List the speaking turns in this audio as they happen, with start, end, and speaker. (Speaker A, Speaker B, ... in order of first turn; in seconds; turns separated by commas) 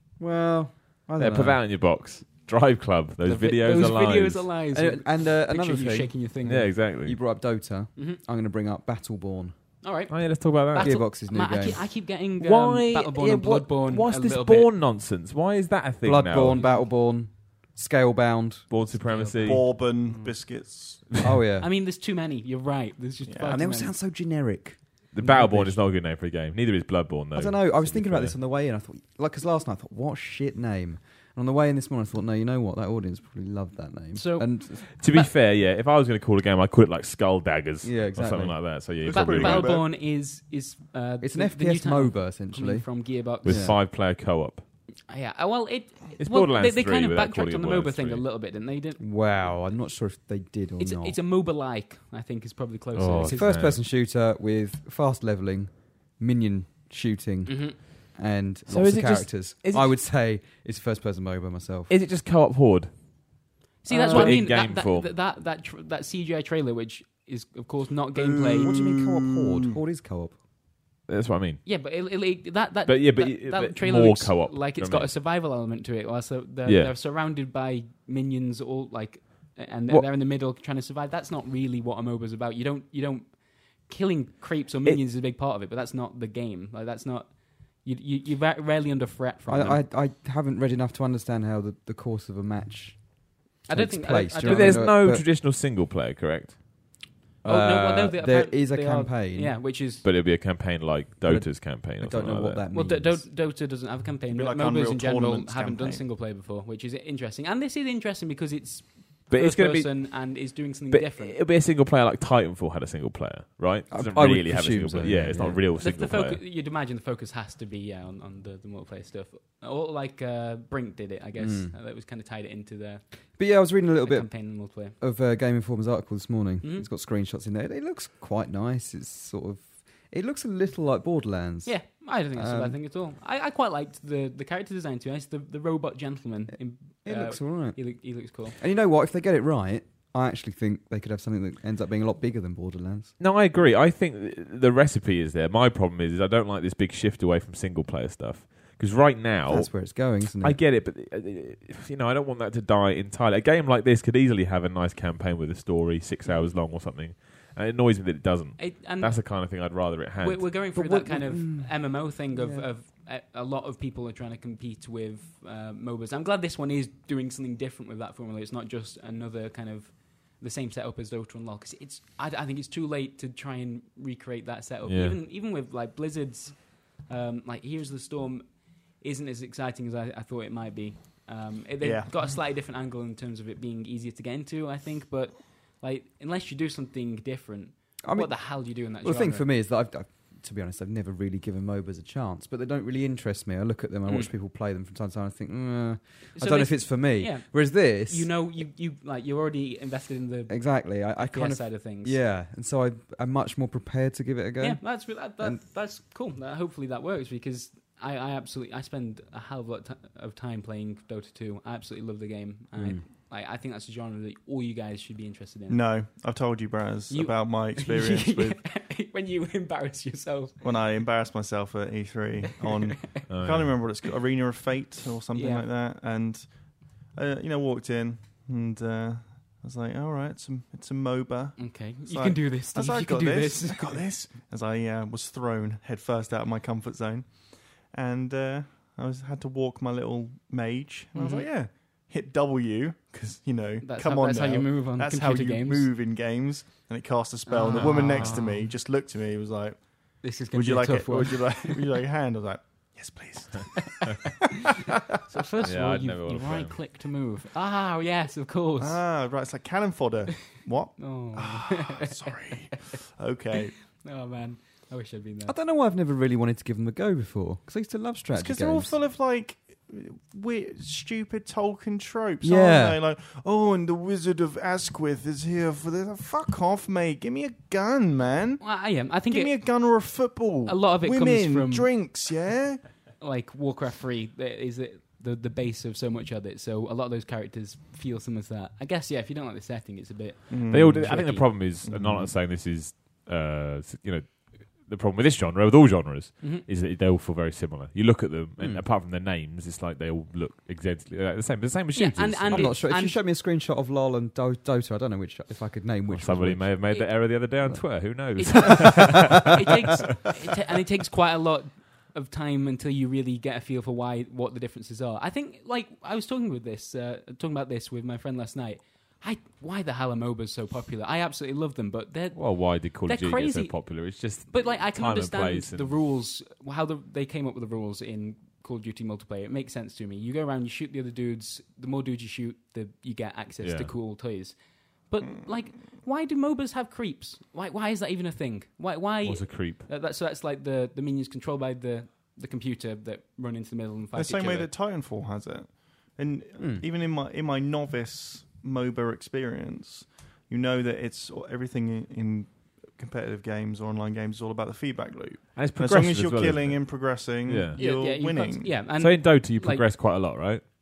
Speaker A: 0.2-1.6, Speaker B: 1.2-4.5, Speaker C: 3.2-6.8, Speaker A: 4.7-6.2, Speaker B: 6.4-7.2, Speaker A: 7.0-9.6, Speaker C: 9.8-14.7, Speaker B: 10.1-11.0, Speaker A: 10.8-11.9, Speaker B: 12.4-16.6, Speaker A: 16.0-18.7, Speaker C: 16.5-16.9, Speaker B: 18.7-19.8, Speaker C: 18.9-20.4, Speaker D: 19.4-21.2, Speaker A: 21.2-21.7, Speaker C: 21.6-23.9, Speaker D: 23.2-23.6, Speaker A: 23.5-25.9, Speaker B: 25.1-28.4, Speaker A: 27.4-34.9, Speaker C: 34.1-35.3, Speaker B: 35.0-39.8, Speaker A: 37.8-38.8, Speaker D: 39.0-39.9, Speaker C: 39.1-43.8, Speaker A: 41.2-43.8, Speaker B: 43.4-44.6, Speaker C: 45.1-49.0, Speaker B: 46.2-48.2, Speaker A: 49.0-51.2, Speaker C: 50.8-53.5, Speaker B: 53.0-53.8, Speaker A: 53.3-61.9, Speaker C: 57.5-57.8, Speaker B: 58.7-60.0, Speaker B: 61.9-63.4, Speaker C: 63.8-68.7, Speaker A: 63.9-64.4, Speaker B: 64.0-65.1, Speaker D: 68.2-69.8, Speaker A: 68.6-70.3, Speaker B: 71.1-71.6, Speaker C: 71.7-89.8, Speaker B: 72.9-75.1, Speaker B: 76.7-76.9, Speaker A: 89.5-95.3, Speaker C: 93.7-94.9, Speaker B: 94.5-96.6, Speaker A: 97.4-99.6, Speaker C: 97.4-100.0, Speaker B: 100.0-102.6, Speaker A: 101.2-103.2, Speaker C: 102.7-111.4, Speaker D: 104.3-106.0, Speaker B: 109.3-116.4, Speaker A: 113.9-115.6, Speaker C: 115.8-123.0, Speaker A: 121.4-121.7, Speaker A: 123.4-132.8, Speaker C: 124.0-125.0, Speaker C: 126.6-126.9, Speaker C: 131.7-138.6, Speaker A: 137.0-143.1, Speaker B: 143.2-160.5, Speaker A: 149.5-150.6, Speaker C: 158.6-159.5, Speaker C: 160.2-189.5, Speaker A: 160.7-162.7, Speaker B: 174.9-175.2, Speaker D: 181.8-182.2, Speaker A: 188.0-198.3, Speaker C: 196.4-202.2, Speaker A: 200.5-205.6, Speaker C: 204.6-215.8, Speaker A: 212.8-213.0, Speaker D: 215.7-218.7, Speaker C: 217.1-220.6, Speaker D: 220.6-254.1, Speaker C: 222.7-223.1, Speaker B: 223.3-223.8, Speaker C: 225.3-225.7, Speaker C: 231.6-234.0, Speaker C: 241.1-241.5, Speaker C: 243.8-245.9, Speaker C: 247.5-248.7, Speaker B: 247.7-248.7, Speaker C: 250.2-251.9, Speaker C: 254.0-254.3, Speaker C: 255.2-259.0, Speaker B: 255.6-256.8, Speaker D: 258.8-263.8, Speaker C: 261.0-262.6, Speaker C: 263.9-265.6, Speaker A: 265.5-268.9, Speaker D: 268.3-282.9, Speaker A: 272.4-273.0, Speaker C: 278.6-281.9, Speaker C: 283.2-291.5, Speaker D: 290.5-291.2, Speaker B: 290.7-302.7, Speaker D: 291.8-292.3, Speaker A: 298.6-298.9, Speaker C: 301.9-303.2, Speaker A: 302.5-306.9, Speaker B: 306.1-310.0, Speaker C: 306.9-307.3, Speaker A: 307.6-309.1, Speaker C: 308.4-344.7, Speaker B: 322.3-326.0, Speaker B: 333.6-333.9, Speaker B: 339.2-339.9, Speaker D: 344.1-358.8, Speaker A: 346.6-346.9, Speaker B: 355.6-357.8, Speaker C: 357.8-359.9, Speaker B: 358.9-360.7